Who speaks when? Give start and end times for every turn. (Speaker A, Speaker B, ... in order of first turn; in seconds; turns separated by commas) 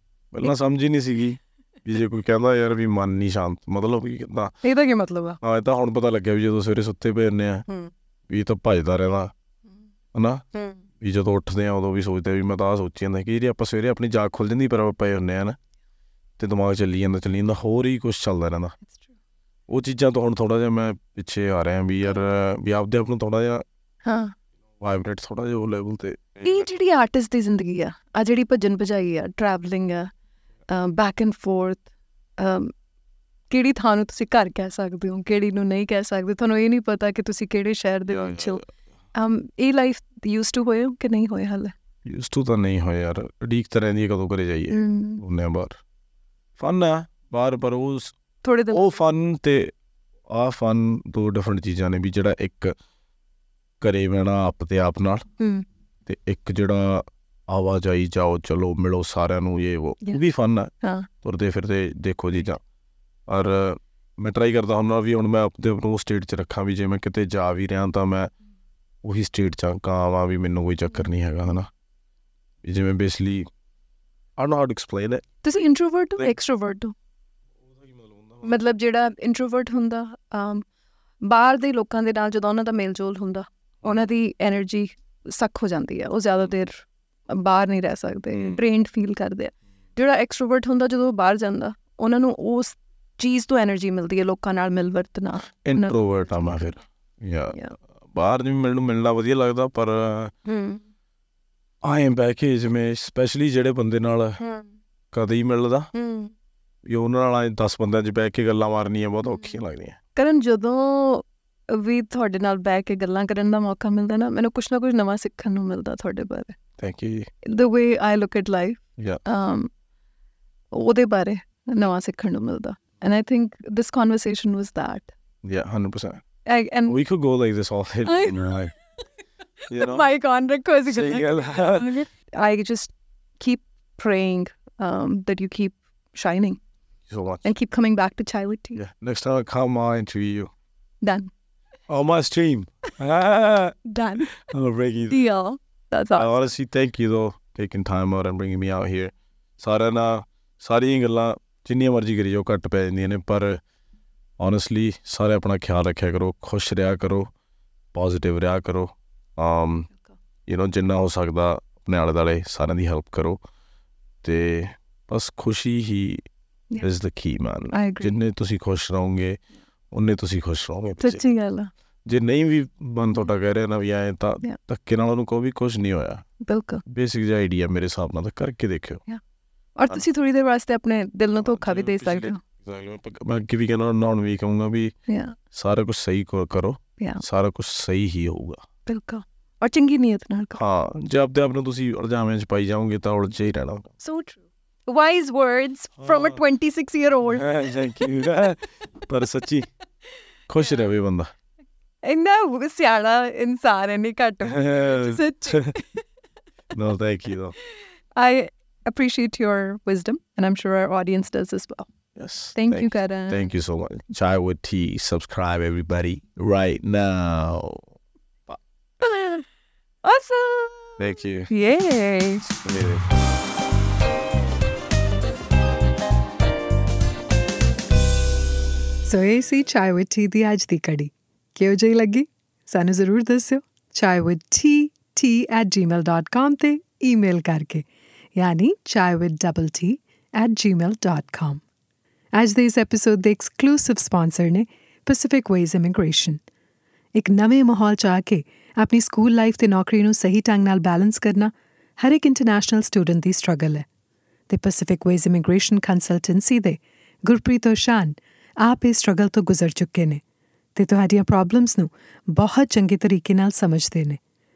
Speaker A: 0.3-4.5, Speaker B: 4.6-5.4, Speaker A: 5.4-7.7, Speaker A: 8.3-9.3, Speaker A: 10.1-10.4, Speaker B: 10.5-10.8, Speaker A: 11.0-15.6, Speaker A: 16.4-18.7, Speaker B: 18.9-19.1, Speaker A: 19.7-23.6, Speaker B: 24.1-24.3, Speaker A: 24.8-26.7, Speaker B: 26.4-30.1, Speaker B: 30.7-31.9, Speaker B: 32.4-32.7, Speaker B: 33.5-38.6, Speaker A: 38.1-38.7, Speaker B: 39.1-41.7, Speaker A: 42.1-45.8, Speaker B: 44.7-45.2, Speaker A: 46.6-48.1, Speaker B: 48.4-49.0, Speaker A: 48.7-49.7, Speaker A: 50.3-52.8, Speaker A: 53.8-55.3, Speaker B: 55.4-55.6, Speaker A: 56.1-60.7, Speaker B: 60.8-61.1, Speaker A: 61.2-62.6, Speaker A: 63.3-68.3, Speaker A: 69.0-71.7, Speaker A: 72.6-73.5, Speaker A: 74.4-75.2, Speaker B: 75.4-77.0, Speaker A: 77.8-78.5, Speaker B: 78.4-80.7, Speaker B: 81.2-96.0, Speaker A: 88.3-88.6, Speaker A: 95.6-100.3, Speaker B: 100.5-100.8, Speaker A: 101.8-104.4, Speaker B: 104.4-104.7, Speaker A: 105.1-105.9, Speaker B: 105.9-106.3, Speaker A: 106.9-110.0, Speaker B: 110.2-116.6, Speaker A: 116.8-117.3, Speaker B: 117.5-119.7, Speaker B: 120.7-125.1, Speaker A: 125.4-126.2, Speaker B: 126.5-127.0, Speaker A: 126.9-128.7, Speaker B: 128.1-128.5, Speaker B: 129.7-136.6, Speaker A: 129.7-130.1, Speaker A: 130.9-131.9, Speaker A: 137.1-137.5, Speaker B: 137.4-138.8, Speaker A: 138.8-140.5, Speaker B: 141.0-141.3, Speaker A: 141.9-143.8, Speaker B: 143.9-144.4, Speaker A: 144.3-145.2, Speaker B: 145.1-146.3, Speaker A: 146.2-153.6, Speaker A: 154.4-157.3, Speaker A: 157.9-159.9, Speaker A: 160.5-163.4, Speaker A: 164.2-166.3, Speaker A: 166.8-169.4, Speaker B: 167.7-168.1, Speaker A: 169.9-171.2, Speaker B: 171.0-171.7, Speaker A: 172.1-176.3, Speaker B: 176.4-176.8, Speaker A: 176.9-179.0, Speaker B: 179.8-182.4, Speaker A: 181.4-184.9, Speaker B: 185.1-185.4, Speaker A: 185.5-188.6, Speaker B: 188.9-190.6, Speaker A: 190.6-193.9, Speaker B: 194.0-198.2, Speaker A: 196.0-196.4, Speaker A: 197.3-199.7, Speaker A: 200.5-201.3, Speaker B: 202.0-206.0, Speaker A: 204.5-205.8, Speaker A: 206.7-207.6, Speaker B: 207.7-211.9, Speaker A: 212.2-217.9, Speaker B: 212.6-213.5, Speaker B: 219.0-219.5, Speaker B: 220.0-222.5, Speaker A: 221.0-221.5, Speaker A: 222.6-223.0, Speaker C: 229.1-237.8, Speaker C: 238.4-241.6, Speaker C: 242.3-246.4, Speaker C: 247.2-253.8, Speaker C: 254.5-260.2, Speaker C: 260.8-264.2